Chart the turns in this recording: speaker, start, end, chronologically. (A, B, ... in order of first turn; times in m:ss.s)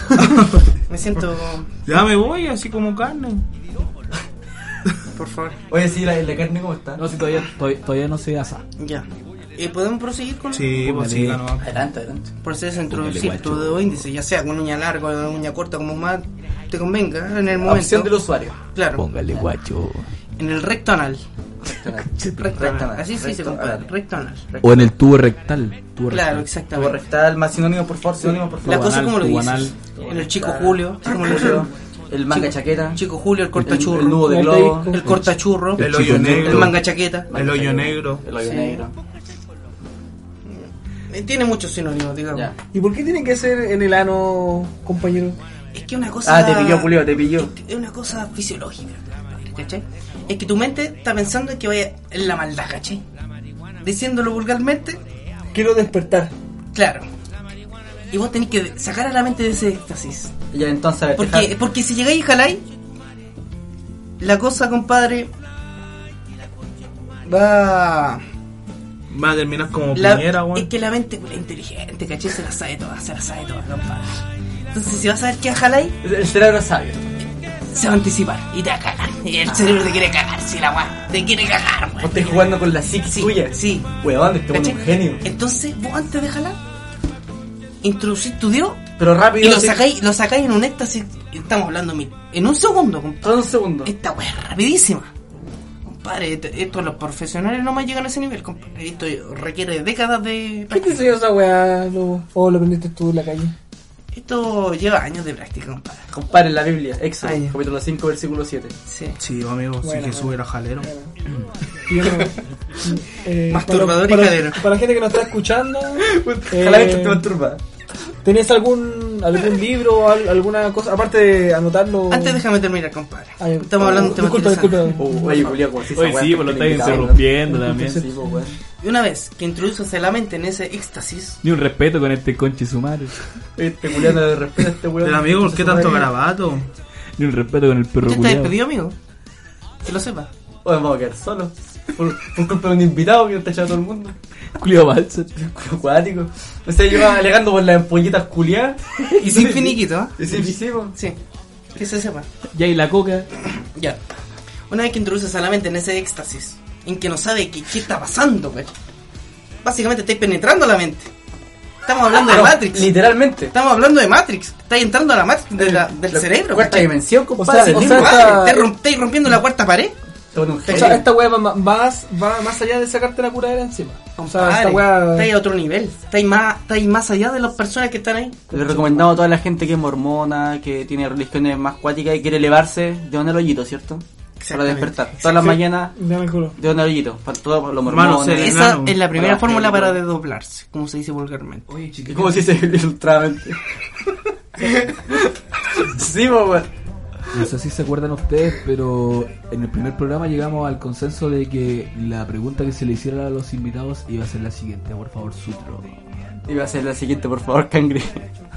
0:00.2-0:00.6 A
0:00.9-0:01.7 B
0:01.9-0:03.5 A
0:05.1-0:05.6 B
0:05.7-0:07.0 C
0:07.0-0:08.6 D
0:08.8-0:10.8 B
0:10.5-0:11.8 A
0:10.8-0:11.5 D
0:11.6-0:12.3 C
0:12.4-0:18.2 B
0:12.9-0:14.0 D
0:17.6-0:18.6 C
0:18.7-0:19.1 B
0:18.9-0:20.1 D
0:20.4-0:21.2 B
0:21.6-0:23.9 C
0:21.9-0:22.7 D
0:22.4-0:24.6 B
0:24.6-0:24.9 C
0:24.6-0:26.5 D
0:26.1-0:27.0 B
0:26.7-0:28.8 C
0:28.6-0:29.8 D
0:28.6-0:31.7 B
0:30.0-0:33.0 C
0:32.3-0:34.2 B
0:33.6-0:34.9 C
0:34.0-0:35.0 E
0:34.9-0:37.3 B
0:35.0-0:36.7 D
0:35.8-0:36.7 A
0:36.2-0:36.7 C
0:37.3-0:38.9 C
0:37.3-0:38.2 A
0:38.4-0:38.8 B
0:40.5-0:42.5 B
0:42.7-0:45.4 E
0:45.7-0:53.0 B
0:46.2-0:47.5 C
0:53.8-0:55.0 B
0:55.5-0:56.3 E
0:56.7-0:57.1 B
0:58.1-1:00.3 B
1:00.5-1:01.5 C
1:01.1-1:02.6 B
1:04.2-1:05.3 B
1:07.2-1:08.2 B
1:09.1-1:10.7 A
1:09.9-1:14.2 B
1:14.7-1:16.0 B
1:16.0-1:17.1 C
1:17.7-1:23.9 B
1:22.0-1:25.2 C
1:24.5-1:26.6 B
1:27.8-1:28.8 B
1:29.0-1:29.9 C
1:29.4-1:35.1 B
1:33.2-1:33.9 C
1:35.8-1:41.0 B
1:40.7-1:43.6 E
1:44.1-1:46.1 B
1:46.1-1:48.7 C
1:47.2-1:47.6 B
1:48.9-1:49.2 B
1:49.2-1:50.9 A
1:49.8-1:51.1 E
1:51.9-1:57.2 E
1:53.5-1:54.6 B
1:56.0-1:57.6 C
1:58.2-2:02.4 E
2:02.1-2:05.0 B
2:03.4-2:05.5 E
2:05.0-2:08.6 C
2:05.9-2:08.1 D
2:08.8-2:11.4 B
2:11.4-2:13.2 D
2:13.6-2:16.1 C
2:15.0-2:16.7 A
2:17.2-2:18.6 D
2:18.0-2:19.0 B
2:19.8-2:20.3 B
2:20.6-2:24.2 C
2:24.6-2:25.4 D
2:25.4-2:30.9 C
2:29.2-2:30.2 B
2:30.9-2:31.2 B
2:31.7-2:32.3 B
2:32.5-2:33.3 D
2:33.4-2:34.0 B
2:34.7-2:38.7 B
2:39.6-2:41.1 B
2:41.8-2:46.9 B
2:42.2-2:43.5 C
2:45.6-2:48.5 C
2:47.4-2:48.7 E
2:47.6-2:50.0 B
2:50.3-2:51.1 C
2:50.6-2:51.0 B
2:50.7-2:55.3 E
2:54.2-2:58.5 B
2:58.5-2:59.1 E
2:58.5-3:05.9 C
3:04.4-3:05.6 B
3:05.9-3:06.6 E
3:06.6-3:10.0 C
3:07.9-3:09.0 A
3:08.4-3:11.7 B
3:11.7-3:12.7 D
3:12.1-3:13.6 C
3:15.2-3:16.7 C
3:17.3-3:26.0 D
3:26.4-3:28.2 C